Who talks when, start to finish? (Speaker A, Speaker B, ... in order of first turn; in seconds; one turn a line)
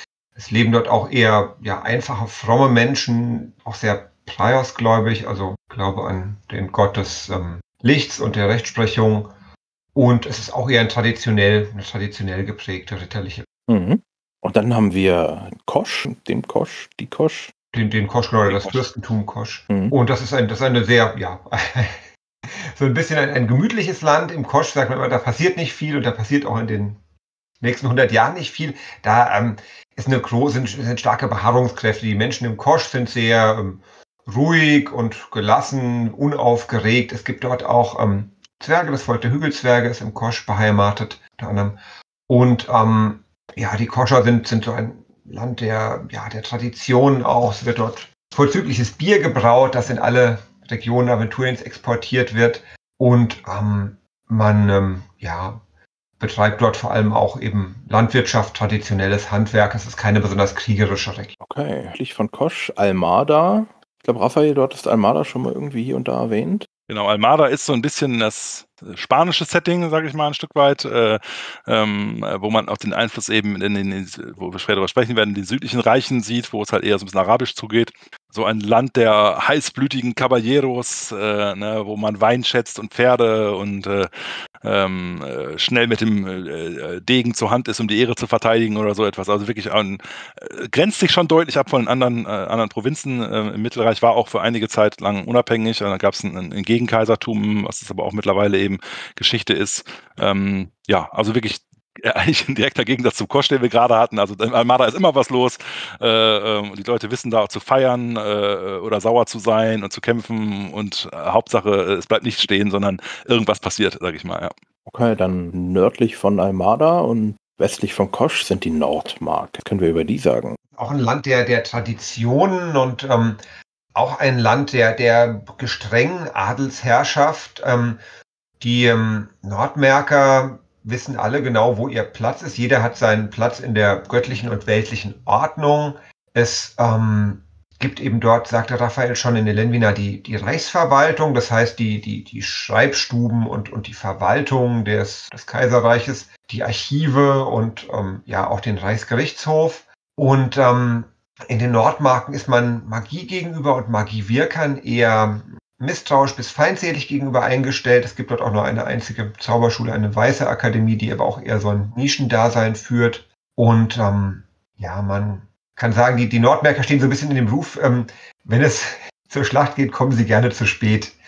Speaker A: 0.4-9.3
Speaker A: 9.9-13.5
Speaker B: 13.7-17.5
Speaker A: 17.7-22.0
Speaker C: 18.5-18.8
Speaker B: 19.7-20.0
Speaker A: 22.8-27.0
Speaker A: 27.6-41.8
Speaker A: 42.3-55.6
Speaker A: 56.2-61.4
Speaker B: 61.4-66.7
Speaker C: 66.9-114.5
Speaker B: 114.9-120.6
Speaker A: 120.8-123.4
Speaker A: 124.0-128.0
Speaker A: 128.6-171.2